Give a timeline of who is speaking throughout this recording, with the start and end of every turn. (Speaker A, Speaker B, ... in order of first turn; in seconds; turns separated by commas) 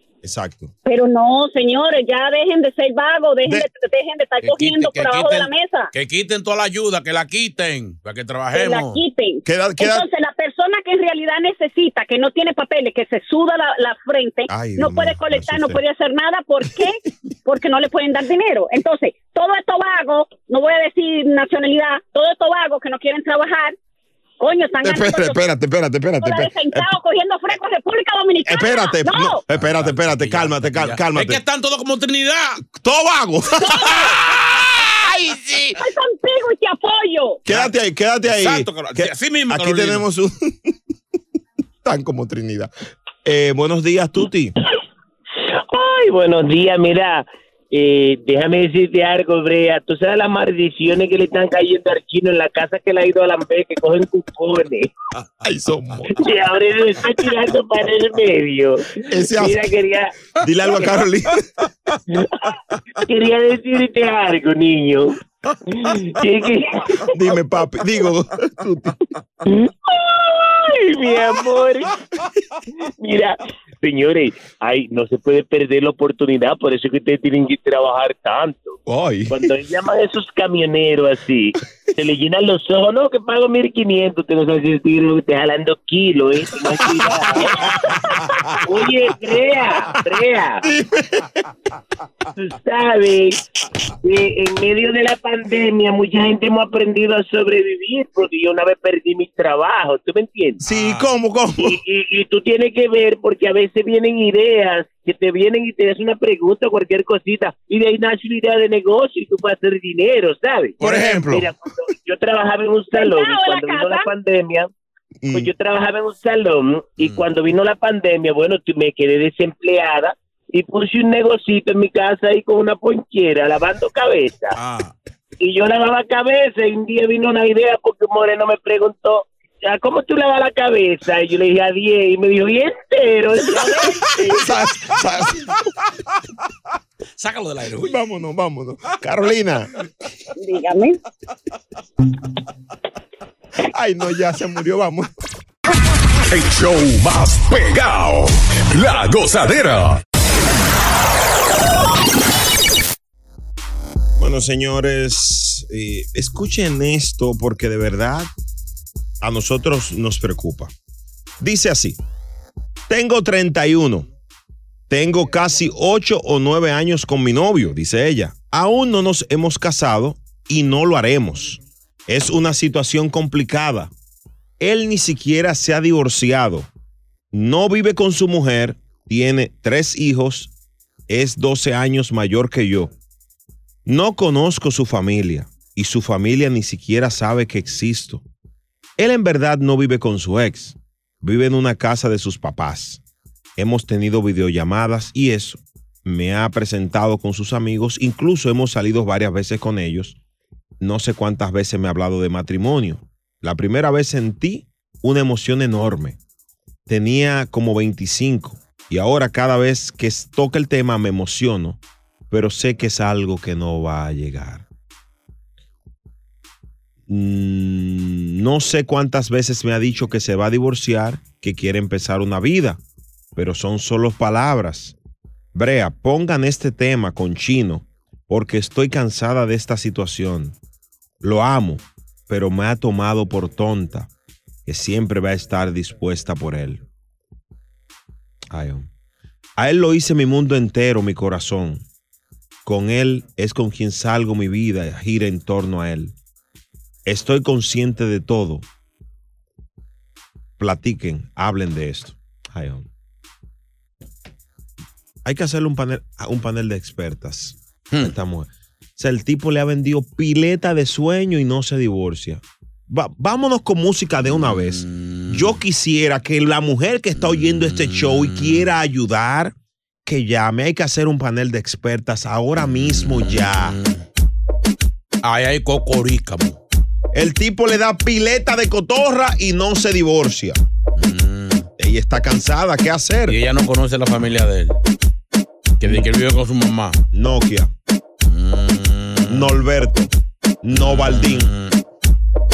Speaker A: 0.2-0.7, Speaker B: 0.9-5.9, Speaker C: 4.4-9.0, Speaker B: 8.5-23.8, Speaker A: 9.4-10.1, Speaker A: 14.5-15.8, Speaker B: 24.4-25.4, Speaker A: 24.8-26.9, Speaker B: 26.2-29.4, Speaker A: 28.4-31.4, Speaker C: 29.6-32.6, Speaker A: 32.6-35.8, Speaker B: 33.6-34.1, Speaker B: 35.8-37.4, Speaker A: 37.5-40.7, Speaker C: 38.3-40.1, Speaker A: 41.8-42.7, Speaker A: 43.2-44.5, Speaker D: 45.7-54.9, Speaker A: 55.4-56.2, Speaker D: 56.1-60.1, Speaker A: 59.1-59.7, Speaker A: 60.4-61.5, Speaker D: 63.0-65.2, Speaker D: 65.8-67.0, Speaker A: 67.1-69.0, Speaker D: 69.5-71.9, Speaker D: 72.9-78.8, Speaker A: 78.9-79.5, Speaker D: 79.3-87.8, Speaker A: 86.8-88.8, Speaker D: 88.6-90.7, Speaker A: 90.6-91.4, Speaker D: 92.4-93.4, Speaker D: 94.0-100.6, Speaker A: 100.6-101.8, Speaker C: 100.7-101.1, Speaker D: 101.6-114.7, Speaker C: 110.8-111.4, Speaker A: 110.8-111.5, Speaker B: 112.9-114.1, Speaker A: 115.2-115.5, Speaker D: 115.3-124.6, Speaker C: 117.0-117.3, Speaker C: 124.5-125.0, Speaker D: 125.4-134.4, Speaker A: 134.3-135.6, Speaker C: 137.2-137.9, Speaker A: 137.8-139.7, Speaker B: 140.4-141.0, Speaker A: 143.7-145.1, Speaker E: 146.3-150.0, Speaker A: 154.2-158.3, Speaker A: 159.2-160.7, Speaker A: 161.4-162.0, Speaker A: 162.9-164.1, Speaker A: 164.9-173.9, Speaker A: 174.6-176.7, Speaker A: 177.3-180.5, Speaker A: 181.1-182.9, Speaker A: 183.9-188.2, Speaker A: 189.0-193.0, Speaker A: 193.6-200.2, Speaker A: 200.8-206.2, Speaker A: 206.9-211.8, Speaker A: 212.3-214.7, Speaker A: 217.1-222.8, Speaker A: 223.3-225.0, Speaker A: 225.5-230.6, Speaker A: 231.2-234.1, Speaker A: 234.7-236.8, Speaker A: 238.5-238.9, Speaker A: 239.6-241.8, Speaker A: 242.7-246.2, Speaker A: 247.1-248.7, Speaker A: 250.6-252.9, Speaker A: 255.2-273.8, Speaker C: 264.3-265.6, Speaker C: 267.1-268.7, Speaker C: 272.6-274.1, Speaker C: 275.2-276.6, Speaker A: 277.1-280.6, Speaker C: 281.0-281.7, Speaker A: 281.8-283.4, Speaker C: 283.3-284.8, Speaker C: 285.8-287.0, Speaker A: 287.1-287.7, Speaker C: 288.3-289.6, Speaker A: 289.3-290.1, Speaker A: 290.6-291.5, Speaker C: 290.7-291.8